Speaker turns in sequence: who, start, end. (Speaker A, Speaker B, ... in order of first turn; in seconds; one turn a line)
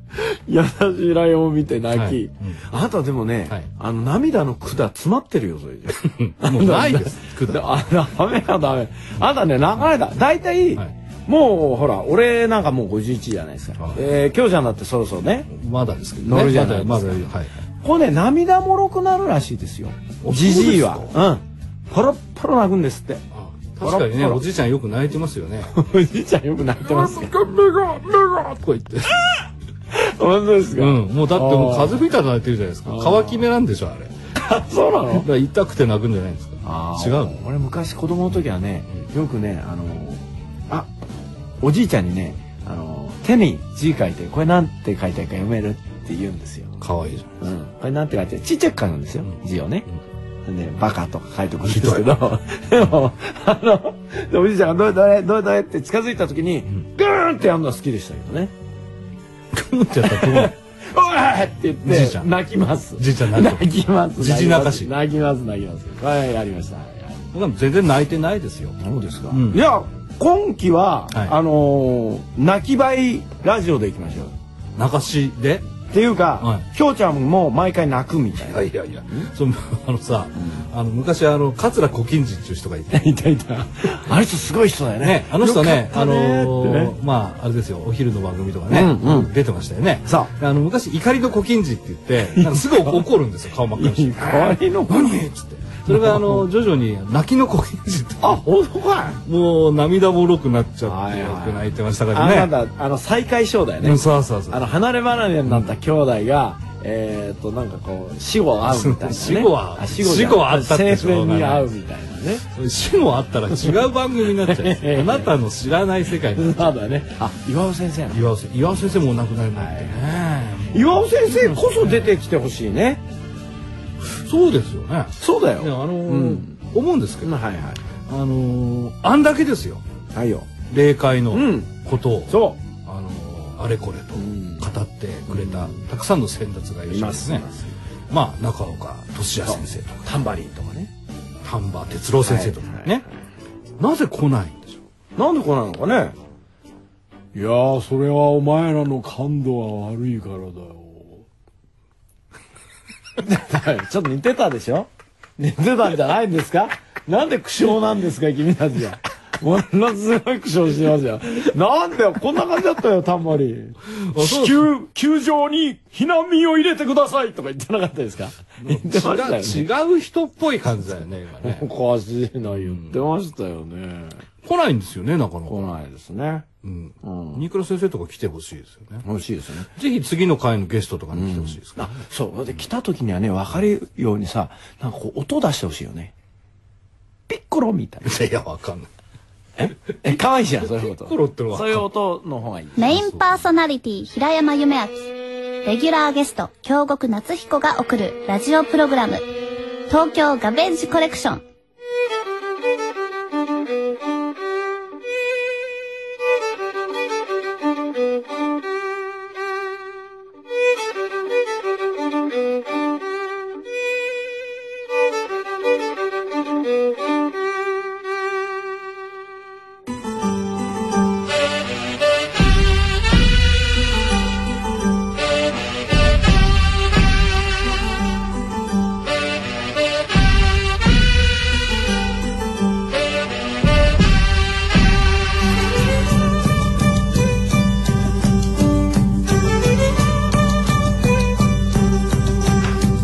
Speaker A: 0.2-15.5
Speaker B: 1.9-2.6
Speaker B: 6.2-7.7
Speaker B: 13.8-14.1
Speaker B: 15.5-17.5
Speaker A: 16.2-17.2
Speaker A: 17.8-23.2
Speaker B: 20.2-21.1
Speaker B: 23.3-25.8
Speaker A: 23.8-24.5
Speaker A: 25.7-27.7
Speaker B: 26.9-29.2
Speaker A: 29.9-32.1
Speaker B: 30.8-34.1
Speaker A: 32.9-33.4
Speaker A: 34.4-35.3
Speaker B: 35.1-37.4
Speaker A: 36.6-40.9
Speaker A: 41.6-46.7
Speaker B: 46.8-47.5
Speaker A: 47.4-49.9
Speaker A: 50.5-58.5
Speaker B: 51.6-52.1
Speaker B: 59.5-60.5
Speaker A: 60.0-67.1
Speaker B: 61.8-62.3
Speaker B: 63.0-63.7
Speaker B: 64.2-64.9
Speaker B: 67.3-68.8
Speaker A: 68.8-74.3
Speaker B: 69.3-69.6
Speaker B: 74.8-75.7
Speaker A: 75.9-79.3
Speaker B: 76.4-76.7
Speaker B: 78.4-83.0
Speaker A: 82.9-87.0
Speaker B: 85.0-98.4
Speaker A: 88.7-89.3
Speaker A: 90.0-90.3
Speaker A: 92.3-93.1
Speaker A: 93.7-95.3
Speaker A: 95.9-96.5
Speaker A: 98.2-99.2
Speaker B: 99.2-102.5
Speaker A: 100.8-112.5
Speaker B: 103.8-104.6
Speaker B: 105.5-105.8
Speaker B: 108.6-111.8
Speaker B: 112.5-116.8
Speaker A: 113.5-115.3
Speaker A: 116.3-118.2
Speaker B: 118.1-122.2
Speaker A: 119.5-120.0
Speaker A: 120.7-123.0
Speaker B: 124.0-127.3
Speaker A: 125.2-126.6
Speaker A: 127.2-127.8
Speaker B: 128.1-129.8
Speaker A: 130.1-130.5
Speaker B: 130.7-137.4
Speaker A: 131.3-131.7
Speaker A: 132.3-132.6
Speaker A: 134.2-134.7
Speaker A: 135.3-135.8
Speaker A: 136.9-137.8
Speaker B: 138.1-140.1
Speaker A: 139.4-140.9
Speaker B: 141.4-143.1
Speaker A: 142.2-143.0
Speaker B: 143.8-144.8
Speaker A: 145.2-146.2
Speaker A: 147.3-151.2
Speaker A: 153.2-169.7
Speaker B: 163.9-164.7
Speaker B: 168.6-171.7
Speaker A: 171.4-174.2
Speaker B: 172.5-173.0
Speaker B: 174.4-175.7
Speaker A: 175.5-176.4
Speaker B: 176.6-179.1
Speaker A: 177.0-177.4
Speaker A: 179.1-179.7
Speaker B: 179.8-181.8
Speaker A: 181.1-186.1
Speaker A: 187.3-188.1
Speaker B: 188.0-188.9
Speaker A: 189.6-192.9
Speaker B: 190.6-191.8
Speaker C: 192.8-199.2
Speaker B: 192.9-193.2
Speaker C: 199.9-201.4